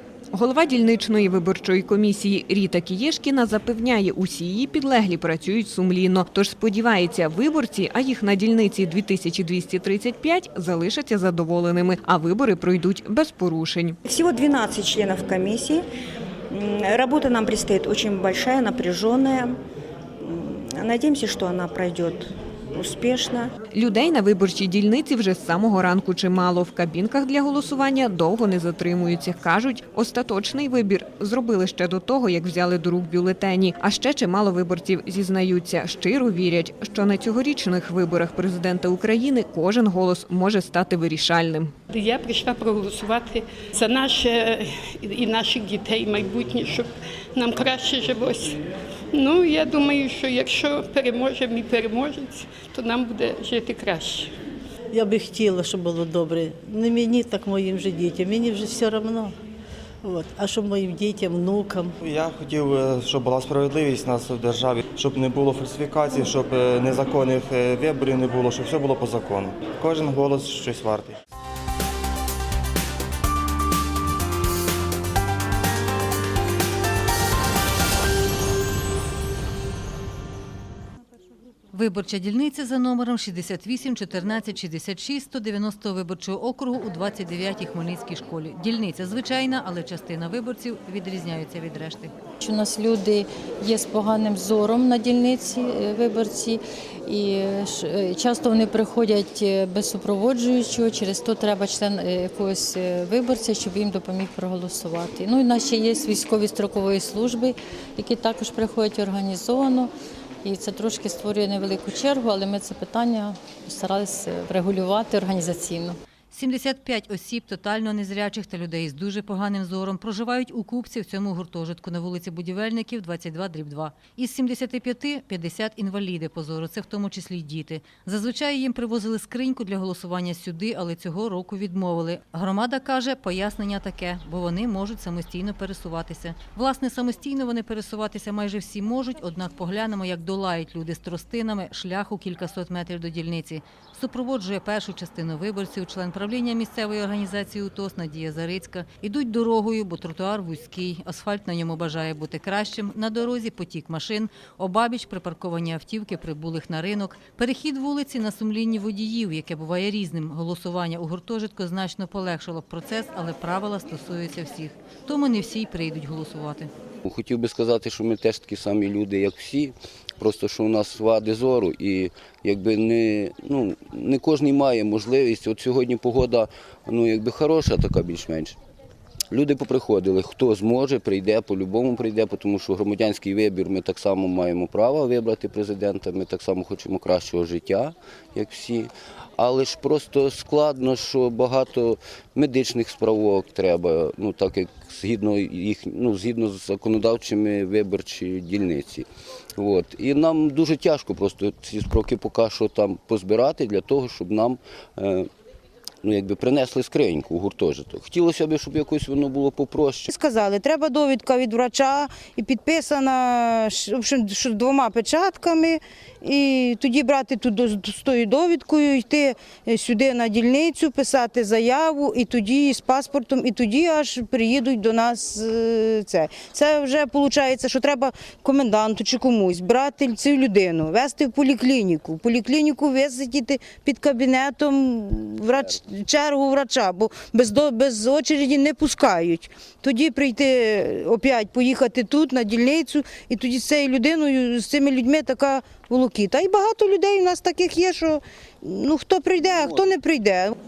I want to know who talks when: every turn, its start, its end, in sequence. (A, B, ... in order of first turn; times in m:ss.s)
0:00.3-0:14.0 A
0:14.0-0:15.8 B
0:16.5-0:19.6 B
0:20.2-0:23.5 B
0:23.7-0:41.7 A
0:41.9-0:48.4 C
0:49.1-0:54.3 C
0:54.9-0:59.3 D
1:00.0-1:01.9 D
1:02.0-1:11.2 E
1:21.7-1:32.1 F
1:32.4-1:56.0 G
1:56.3-2:46.7 F
2:47.0-2:58.6 H
2:59.3-3:25.3 H
3:26.0-3:30.1 H
3:30.1-4:10.5 I